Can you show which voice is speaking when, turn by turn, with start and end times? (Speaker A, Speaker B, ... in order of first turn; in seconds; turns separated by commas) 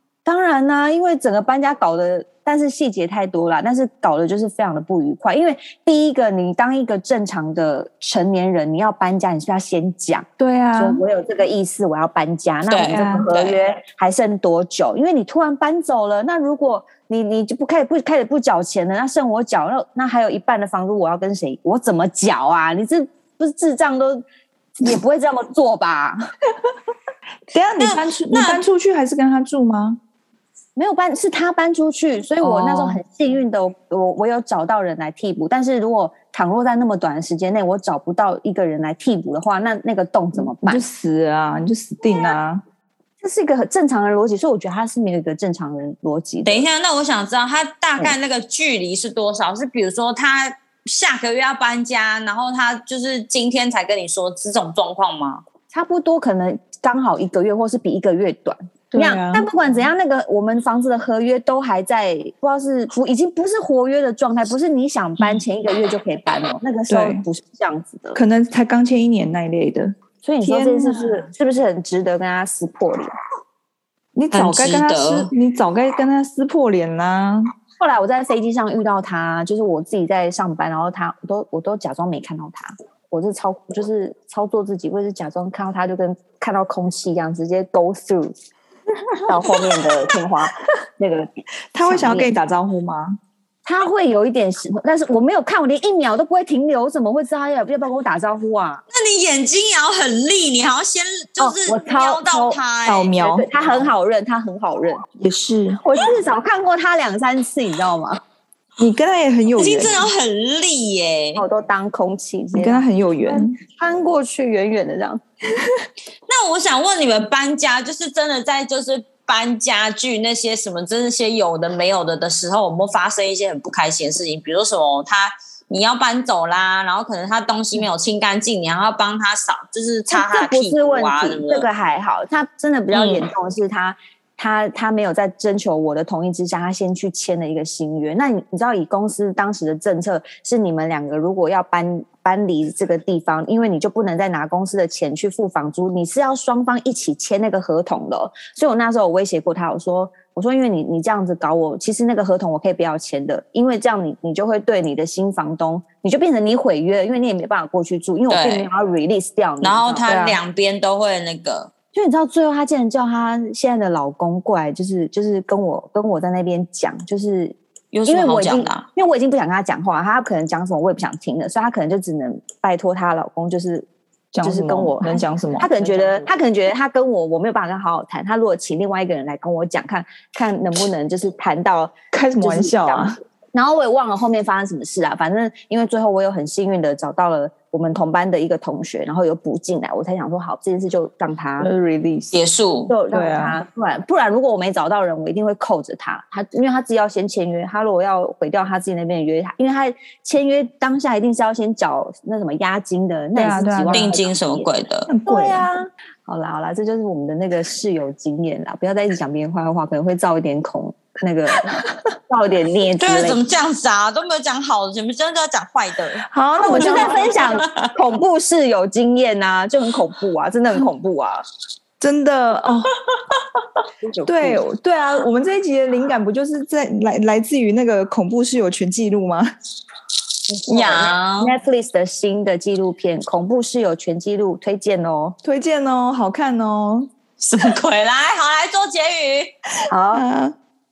Speaker A: 0.3-24.2, Speaker B: 10.4-11.0, Speaker C: 12.7-13.6, Speaker B: 12.9-13.3, Speaker A: 24.8-26.2, Speaker B: 27.5-30.0, Speaker C: 27.8-28.6, Speaker A: 30.8-40.8, Speaker B: 32.4-33.0, Speaker B: 40.4-42.6, Speaker A: 42.1-42.4, Speaker A: 43.2-46.7, Speaker C: 46.4-55.4, Speaker A: 55.7-68.2, Speaker B: 58.9-59.5, Speaker B: 66.9-67.2, Speaker B: 68.2-71.3, Speaker A: 70.2-73.1, Speaker B: 74.2-77.5, Speaker C: 74.3-75.3, Speaker A: 77.8-88.3, Speaker A: 89.2-92.3, Speaker B: 89.3-90.0, Speaker B: 91.7-93.2, Speaker A: 93.7-98.8, Speaker C: 98.9-103.2, Speaker A: 101.4-102.6, Speaker B: 102.9-103.5, Speaker A: 103.2-105.1, Speaker B: 105.2-105.8, Speaker A: 105.8-108.2, Speaker B: 108.8-110.1, Speaker C: 109.6-111.4, Speaker A: 111.4-115.2, Speaker B: 112.5-113.6, Speaker C: 116.3-131.7, Speaker A: 130.1-160.1, Speaker C: 132.9-133.3, Speaker C: 158.3-158.7, Speaker C: 159.6-161.7, Speaker B: 160.1-160.4, Speaker A: 161.9-173.9, Speaker C: 167.9-168.9, Speaker B: 174.3-176.3, Speaker A: 174.4-191.7, Speaker B: 182.1-183.2, Speaker B: 191.6-192.4, Speaker C: 192.3-192.9, Speaker A: 192.9-204.7, Speaker B: 193.1-193.6, Speaker B: 203.3-204.2, Speaker C: 203.9-205.1, Speaker B: 205.1-205.7, Speaker A: 205.3-213.4, Speaker C: 213.0-217.9, Speaker B: 216.3-217.5, Speaker A: 216.6-221.4, Speaker B: 222.0-222.9, Speaker A: 224.0-224.6, Speaker B: 224.3-229.5, Speaker A: 230.5-235.4, Speaker C: 230.7-231.5, Speaker B: 235.4-237.1, Speaker C: 237.4-239.5, Speaker A: 239.9-240.2, Speaker B: 240.1-240.6